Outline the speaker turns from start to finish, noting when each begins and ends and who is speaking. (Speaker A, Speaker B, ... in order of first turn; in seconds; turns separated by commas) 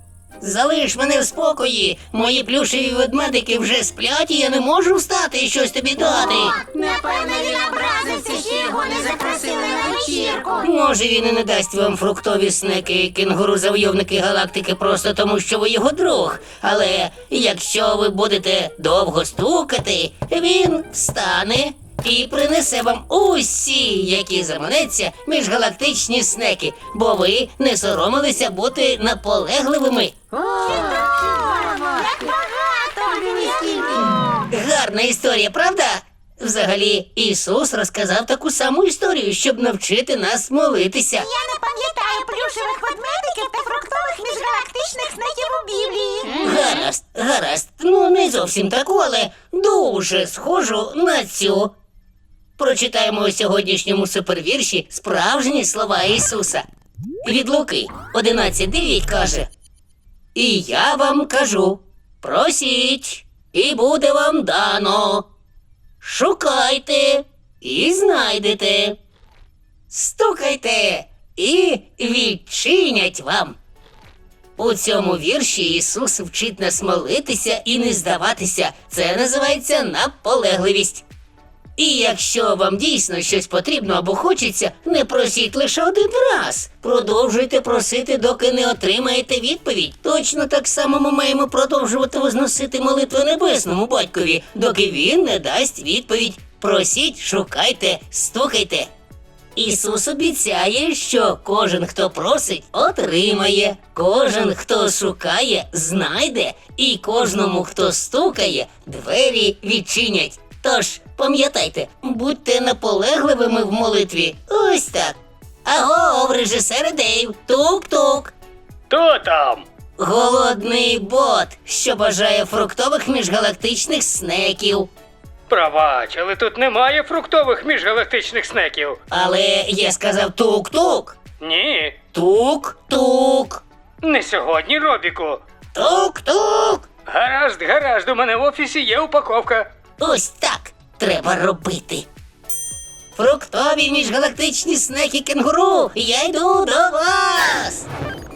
Speaker A: 0.4-6.6, Speaker B: 6.4-10.6, Speaker A: 10.6-30.1, Speaker B: 30.3-34.4, Speaker A: 34.5-41.3, Speaker B: 41.2-46.5, Speaker A: 46.4-51.7, Speaker A: 52.6-56.6, Speaker A: 57.2-59.5, Speaker A: 60.3-65.3, Speaker A: 66.0-69.0, Speaker A: 69.9-73.6, Speaker A: 74.6-81.0, Speaker A: 81.8-98.9, Speaker A: 99.5-118.3, Speaker C: 118.9-119.7, Speaker A: 120.0-124.9, Speaker C: 125.5-129.0, Speaker A: 129.1-131.2, Speaker C: 131.4-132.0, Speaker A: 132.1-133.6, Speaker C: 134.0-135.4, Speaker A: 135.7-136.9, Speaker C: 137.0-139.7, Speaker A: 140.0-142.1, Speaker A: 143.1-147.9